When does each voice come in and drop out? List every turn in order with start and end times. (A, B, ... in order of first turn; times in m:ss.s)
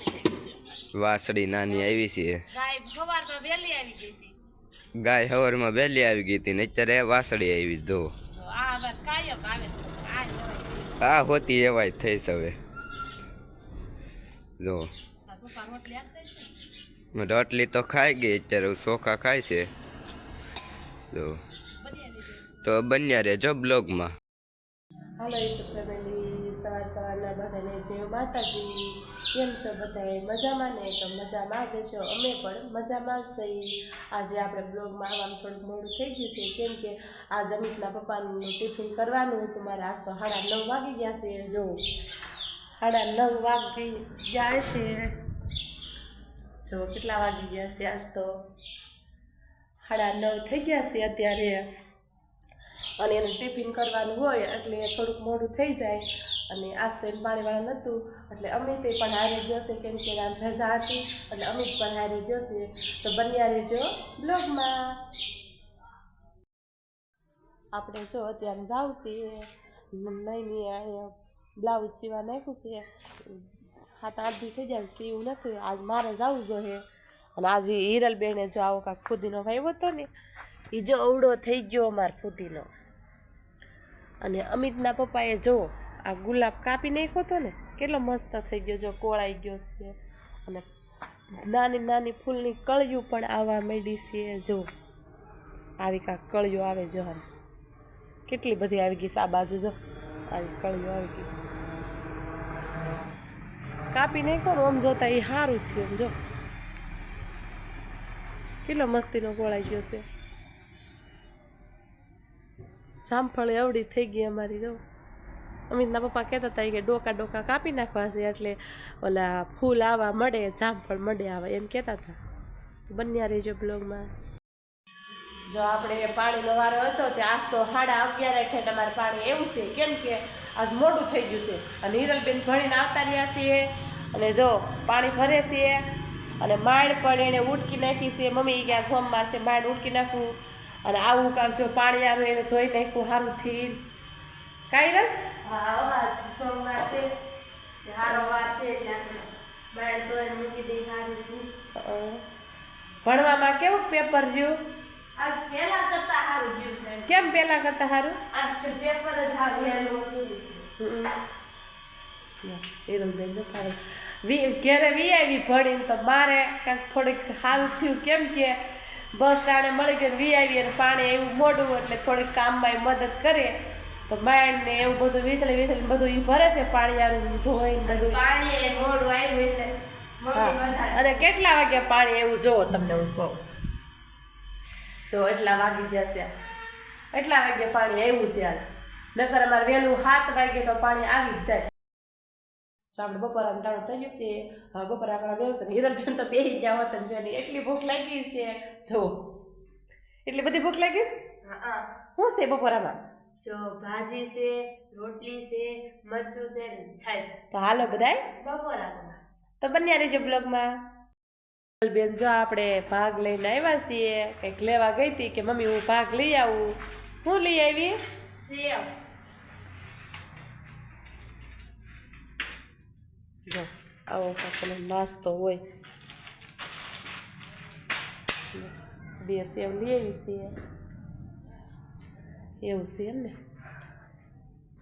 0:01.0-0:02.4 A
0:02.5-0:04.3 B
0:05.0-0:08.1 A
0:08.4-0:10.8 B
0:11.0-0:12.5 A
0:14.6-0:14.9 A
0:15.3-0:16.3 B
0:17.2-0:19.7 A
0:22.6-0:24.1 A
0:25.2-0:41.8 B
0:42.8-0:45.2 B
0:46.7-0:48.3 B
0:49.8-0:51.7 B
0:53.0-1:04.9 B
1:07.7-1:13.4 B
1:14.0-1:16.9 B
1:17.4-1:20.1 B
1:20.7-1:22.7 B
1:24.2-1:30.6 B
1:31.4-1:34.7 B
1:35.8-1:37.2 B
1:38.3-1:39.8 B
1:40.3-1:41.4 B
1:43.9-1:46.1 B
1:48.7-1:50.0 B
1:53.0-1:54.8 B
1:55.7-2:02.2 B
2:02.9-2:04.1 B
2:05.5-2:15.8 B
2:16.4-2:23.8 B
2:24.7-2:25.1 B
2:25.4-2:27.1 C
2:27.8-2:31.5 C
2:31.8-2:32.2 B
2:33.0-2:34.6 B
2:35.2-2:37.3 C
2:37.1-2:38.2 B
2:38.3-2:40.7 C
2:40.8-2:41.2 B
2:42.4-2:48.6 B
2:49.2-2:53.6 B
2:54.1-2:58.2 B
2:57.8-3:01.2 C
3:00.3-3:03.4 B
3:05.1-3:06.3 B
3:07.1-3:11.7 B
3:13.0-3:19.1 B
3:20.3-3:21.2 B
3:21.4-3:21.9 C
3:22.2-3:22.9 B
3:23.4-3:27.4 C
3:27.5-3:28.3 B
3:28.3-3:29.2 C
3:29.6-3:30.7 B
3:31.8-3:36.7 B
3:37.2-3:38.0 B
3:38.4-3:38.9 C
3:43.5-3:45.6 B
3:48.5-3:50.5 B
3:52.6-3:53.3 B